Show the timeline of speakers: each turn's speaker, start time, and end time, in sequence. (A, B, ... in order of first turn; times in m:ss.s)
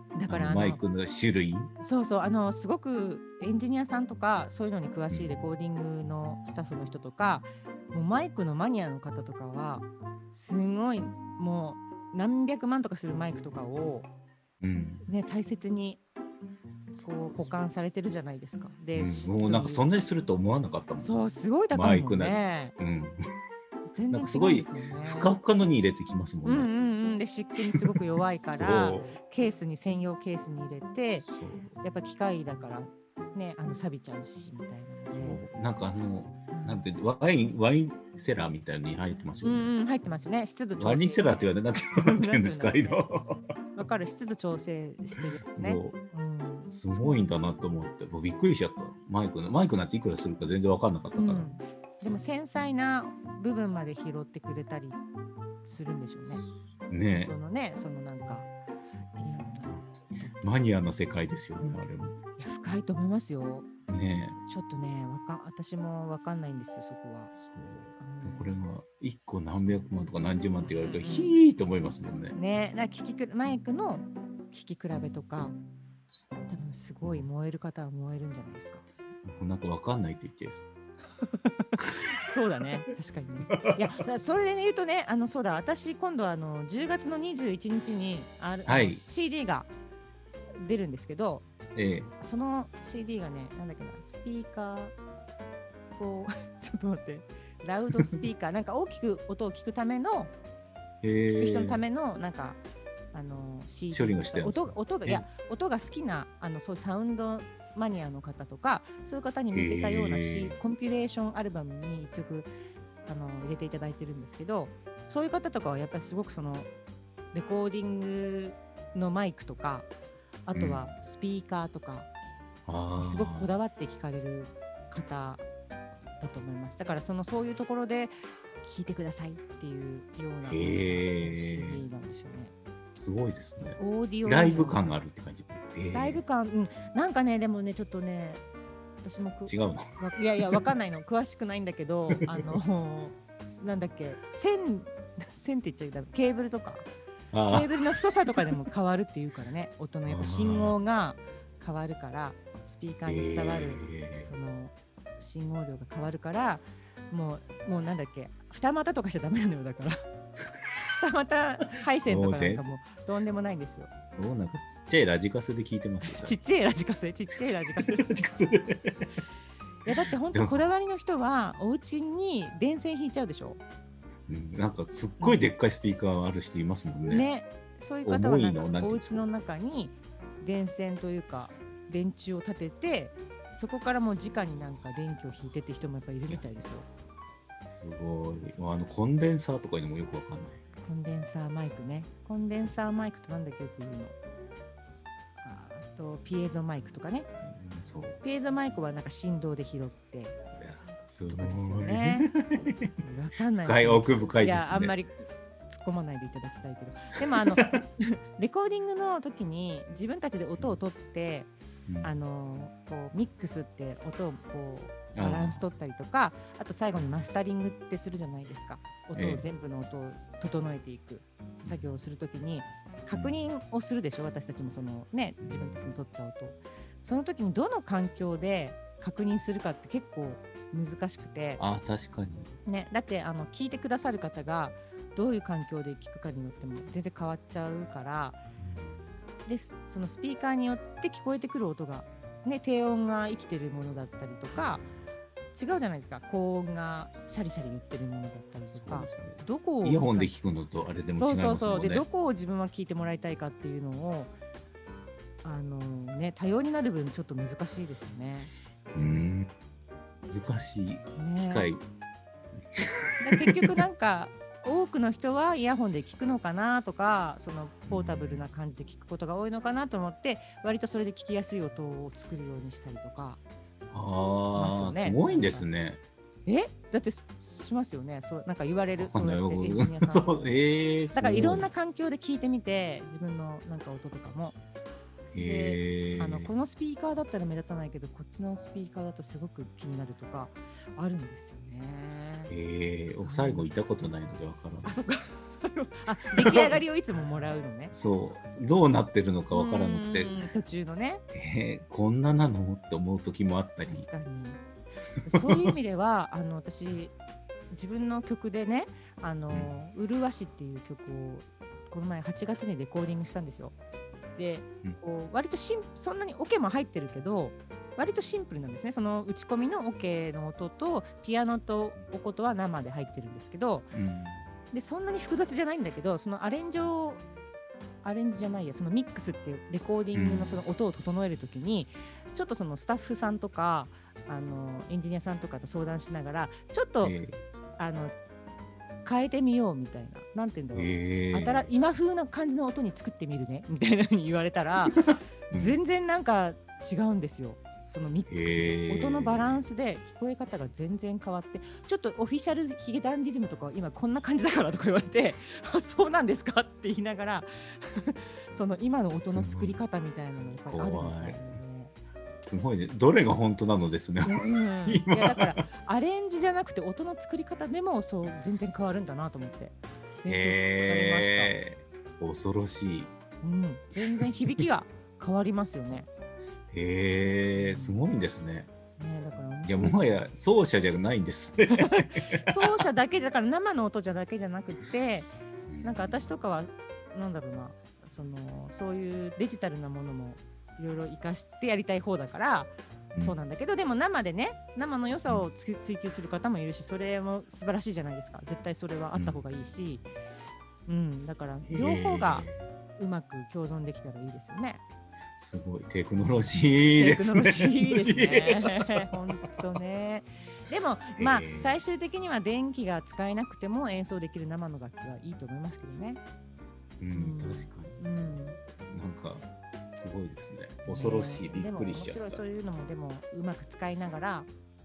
0:00.2-0:00.8 A
0:00.3-0:01.7 B
0:01.8-0:14.1 A
0:05.1-0:05.5 B
0:14.6-0:15.1 B
0:15.1-0:16.0 A
0:17.0-0:17.5 B
0:17.0-0:19.9 A
0:18.9-0:23.2 B
0:21.0-0:22.7 A
0:23.9-0:25.3 A
0:24.1-0:26.7 B
0:26.4-0:31.3 A
0:28.4-0:29.2 B
0:31.3-0:31.8 B
0:31.8-0:35.4 A
0:35.1-0:39.7 B
0:36.5-0:36.8 A
0:39.4-0:41.4 A
0:40.8-0:43.4 B
0:42.0-0:43.1 A
0:43.7-0:47.3 A
0:45.6-0:46.0 B
0:46.7-0:51.6 B
0:51.2-0:55.0 A
0:55.6-0:56.4 A
0:56.9-0:57.4 B
0:57.2-0:58.5 A
0:59.2-1:00.6 A
1:00.4-1:02.2 B
1:02.4-1:03.7 A
1:03.9-1:04.4 B
1:04.5-1:07.3 A
1:07.4-1:12.4 B
1:08.0-1:08.6 A
1:10.6-1:11.4 A
1:12.3-1:15.6 A
1:16.5-1:18.9 A
1:19.2-1:20.6 B
1:21.2-1:29.7 A
1:21.8-1:22.1 B
1:28.7-1:29.0 B
1:30.6-1:31.5 A
1:31.8-1:32.1 B
1:32.2-1:35.0 A
1:36.0-1:40.3 A
1:41.0-1:41.8 B
1:41.3-1:42.6 A
1:43.1-1:52.5 A
1:43.9-1:45.2 B
1:49.5-1:50.5 B
1:53.1-1:56.7 A
1:57.3-1:59.9 A
2:00.5-2:02.1 A
2:00.5-2:00.9 B
2:02.7-2:03.5 B
2:03.0-2:05.4 A
2:06.2-2:12.5 A
2:10.5-2:11.8 B
2:13.0-2:16.2 B
2:13.6-2:15.0 A
2:15.9-2:18.4 A
2:19.0-2:26.9 A
2:19.5-2:20.7 B
2:22.1-2:22.6 B
2:27.3-2:27.8 B
2:27.5-2:40.0 A
2:30.1-2:30.8 B
2:33.1-2:34.3 B
2:41.0-2:43.9 A
2:42.1-2:42.7 B
2:44.2-2:46.4 B
2:46.0-2:48.2 A
2:47.4-2:49.0 B
2:49.8-2:53.6 A
2:50.3-2:50.7 B
2:54.3-2:57.3 B
2:55.2-2:55.5 A
2:57.1-3:06.9 A
2:58.0-2:59.3 B
3:06.3-3:06.6 B
3:07.7-3:10.6 B
3:10.8-3:14.2 A
3:15.4-3:17.3 A
3:17.4-3:18.2 B
3:18.2-3:20.4 A
3:20.6-3:22.9 B
3:21.3-3:22.3 A
3:23.0-3:31.5 A
3:23.5-3:25.0 B
3:31.9-3:32.1 B
3:32.0-3:51.6 A
3:35.1-3:35.6 B
3:39.2-3:39.5 B
3:41.6-3:41.9 B
3:43.1-3:43.5 B
3:45.4-3:45.9 B
3:51.6-3:52.6 B
3:52.7-3:58.4 A
3:58.6-3:59.1 B
3:59.4-4:04.9 A
4:05.5-4:10.3 A
4:08.8-4:12.1 B
4:11.1-4:14.3 A
4:15.4-4:18.5 A
4:18.9-4:19.5 B
4:20.3-4:21.8 B
4:21.2-4:21.7 A
4:22.8-4:23.5 B
4:23.2-4:33.4 A
4:27.9-4:28.5 B
4:33.9-4:36.0 B
4:34.5-4:35.7 A
4:36.5-4:40.5 A
4:39.0-4:41.7 B
4:41.1-4:44.6 A
4:45.3-4:46.5 B
4:45.4-4:52.5 A
4:52.5-4:55.0 B
4:53.2-4:53.7 A
4:54.8-4:58.0 A
4:56.4-4:56.8 B
4:57.9-5:00.4 B
4:59.5-5:01.2 A
5:01.3-5:04.1 B
5:03.9-5:04.6 A
5:05.2-5:07.2 A
5:05.4-5:05.7 B
5:07.7-5:13.7 A
5:14.4-5:23.9 A
5:23.9-5:24.5 B
5:24.7-5:27.2 A
5:28.0-5:37.2 A
5:30.1-5:30.6 B
5:37.0-5:37.4 B
5:37.8-5:38.1 A
5:39.0-6:01.9 A
5:40.7-5:41.7 B
5:45.5-5:45.8 B
5:48.3-5:49.7 B
5:59.3-5:59.8 B
6:00.6-6:01.6 B
6:02.4-6:05.6 B
6:04.2-6:11.6 A
6:10.2-6:13.1 B
6:13.4-6:16.1 A
6:16.7-6:18.7 B
6:17.6-6:18.0 A
6:19.0-6:20.2 A
6:19.6-6:22.8 B
6:21.7-6:25.3 A
6:25.7-6:26.3 B
6:25.8-6:40.1 A
6:39.1-6:39.4 B
6:40.9-6:44.8 A
6:41.7-6:42.7 B
6:45.4-6:49.3 B
6:46.2-6:56.2 A
6:51.2-6:51.8 B
6:57.0-6:58.0 B
6:57.1-6:58.6 A
6:58.9-7:02.4 B
7:00.9-7:04.5 A